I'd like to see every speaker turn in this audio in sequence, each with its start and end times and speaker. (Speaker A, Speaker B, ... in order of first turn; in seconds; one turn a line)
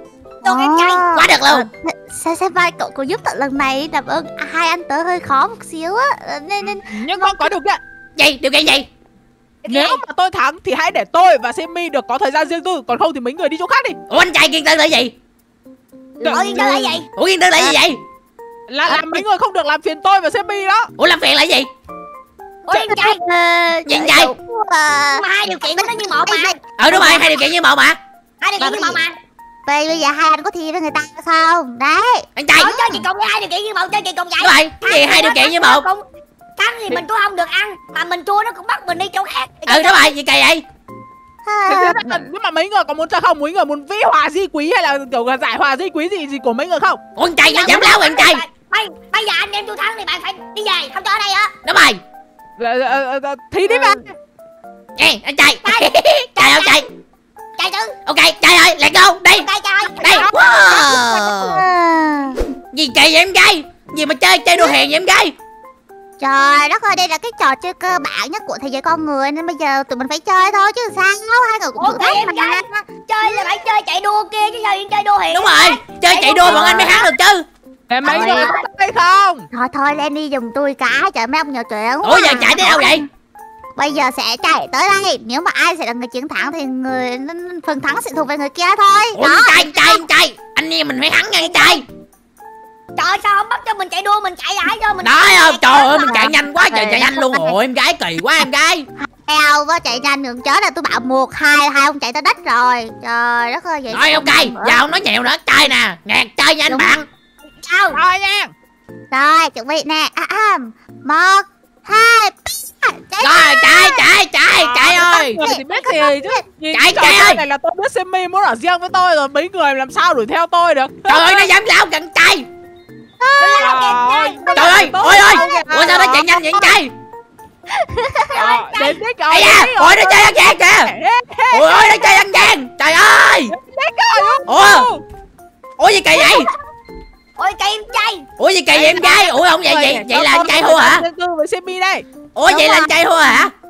Speaker A: 0.4-1.0
Speaker B: 0.4-7.5
Speaker C: 1.1-1.7
Speaker D: 6.8-7.8
Speaker C: 8.2-8.9
Speaker A: 9.6-10.0
Speaker D: 9.7-14.0
Speaker C: 14.1-15.1
Speaker D: 16.2-17.0
Speaker A: 16.3-17.1
Speaker C: 17.1-18.0
Speaker D: 18.7-20.9
Speaker B: 18.9-19.2
Speaker C: 21.0-21.7
Speaker A: 22.7-23.2
Speaker B: 22.9-27.2
Speaker C: 23.9-24.3
Speaker A: 25.1-27.1
Speaker C: 26.8-28.0
Speaker A: 28.4-29.1
Speaker B: 28.6-29.0
Speaker B: 29.6-33.0
Speaker C: 32.4-32.7
Speaker A: 32.6-36.0
Speaker C: 34.4-35.8
Speaker A: 36.6-40.1
Speaker C: 39.7-40.6
Speaker B: 41.4-42.3
Speaker D: 41.7-47.0
Speaker C: 47.1-48.4
Speaker A: 47.5-51.5
Speaker C: 51.6-52.0
Speaker D: 52.6-54.1
Speaker B: 53.7-54.0
Speaker C: 55.0-56.9
Speaker A: 55.6-56.8
Speaker A: 57.6-57.9
Speaker C: 58.0-59.5
Speaker A: 59.4-60.8
Speaker C: 60.0-61.6
Speaker B: 60.9-62.5
Speaker C: 62.7-65.3
Speaker B: 66.2-73.5
Speaker A: 71.8-77.1
Speaker C: 75.3-77.4
Speaker D: 77.9-79.5
Speaker A: 78.0-78.6
Speaker B: 78.0-78.5
Speaker B: 79.5-83.0
Speaker C: 82.0-83.0
Speaker B: 83.8-90.0
Speaker C: 89.2-91.8
Speaker A: 91.4-91.8
Speaker A: 93.0-96.3
Speaker C: 95.0-98.9
Speaker B: 95.9-97.5
Speaker B: 99.0-104.8
Speaker C: 103.9-107.0
Speaker B: 106.7-107.0
Speaker A: 107.6-108.0
Speaker D: 107.9-108.5
Speaker B: 109.1-114.1
Speaker C: 113.2-115.4
Speaker B: 114.7-116.4
Speaker D: 114.8-121.5
Speaker C: 116.7-117.4
Speaker C: 121.0-122.5
Speaker B: 123.2-123.7
Speaker A: 123.4-124.5
Speaker D: 123.5-126.2
Speaker C: 124.5-126.9
Speaker B: 125.3-126.2
Speaker B: 127.8-128.4
Speaker A: 128.3-129.0
Speaker D: 128.3-132.1
Speaker C: 129.3-130.9
Speaker C: 131.5-133.5
Speaker D: 133.5-135.0
Speaker C: 134.4-134.9
Speaker C: 135.8-136.5
Speaker A: 137.4-138.2
Speaker C: 138.4-141.0
Speaker D: 138.7-142.0
Speaker C: 142.3-143.5
Speaker B: 142.5-142.9